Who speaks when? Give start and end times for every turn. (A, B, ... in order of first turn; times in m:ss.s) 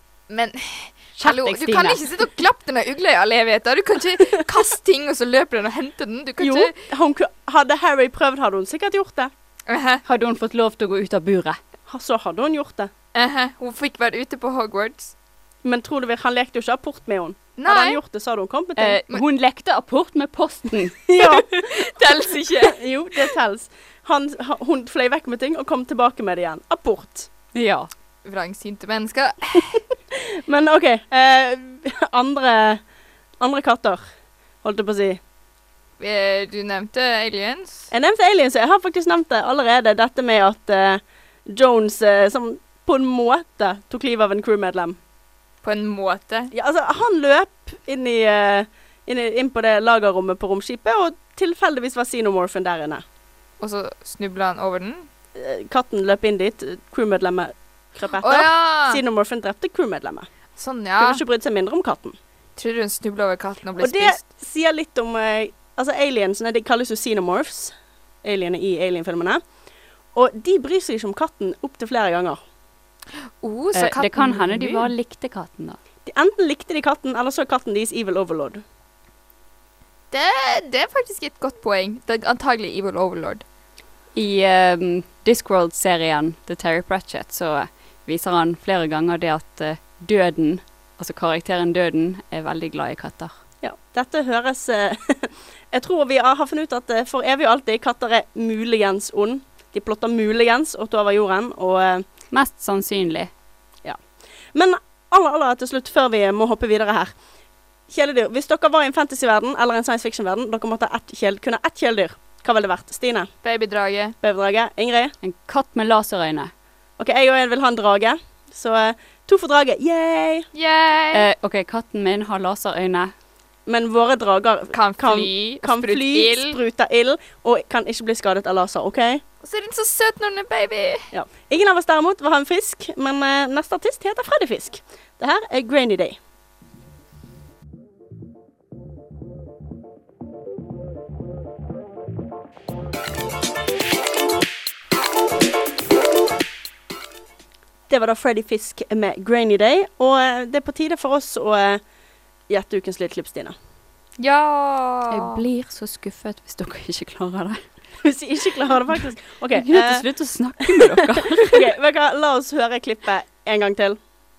0:00.3-0:06.7 A
0:01.2-0:02.1 B
0:06.4-0:09.3 C
0:09.7-0:10.0 A
0:10.0-0:11.6 B
0:11.9-0:12.9 C
0:13.1-0:15.1 A
0:15.6-0:19.0 C
0:17.6-0:18.0 A
0:18.8-0:21.0 B
0:21.1-0:21.7 C
0:21.2-0:22.8 A
0:22.6-0:27.3 C
0:27.5-0:27.9 B
0:28.2-0:29.8 A
0:30.3-0:32.8 C
0:33.4-0:34.1 C
0:34.6-0:35.2 C
0:36.0-0:37.9 A
0:37.9-0:45.0 C
0:45.6-0:46.5 A
0:46.5-0:53.0 C
0:53.6-0:55.1 A
0:55.3-1:00.3 C
0:58.2-0:59.0 A
1:00.6-1:01.2 A
1:01.0-1:02.2 C
1:02.6-1:04.2 A
1:03.8-1:09.4 C
1:10.1-1:12.4 C
1:13.4-1:14.9 A
1:13.7-1:15.8 B
1:16.0-1:18.6 C
1:20.1-1:23.4 A
1:24.1-1:33.3 B
1:33.6-1:42.0 C
1:42.3-1:43.3 B
1:44.5-1:47.1 C
1:47.9-1:53.3 C
1:53.4-1:54.2 A
1:54.2-1:55.1 C
1:55.2-1:56.5 B
1:57.0-2:00.5 C
2:00.5-2:01.2 A
2:01.1-2:03.1 B
2:03.7-2:09.2 C
2:04.7-2:06.6 A
2:09.4-2:11.1 A
2:11.1-2:16.2 C
2:27.9-2:31.8 C
2:32.5-2:33.5 C
2:34.2-2:35.4 A
2:35.1-2:37.6 B
2:38.0-2:40.0 C
2:39.5-2:41.7 B
2:40.6-2:44.0 C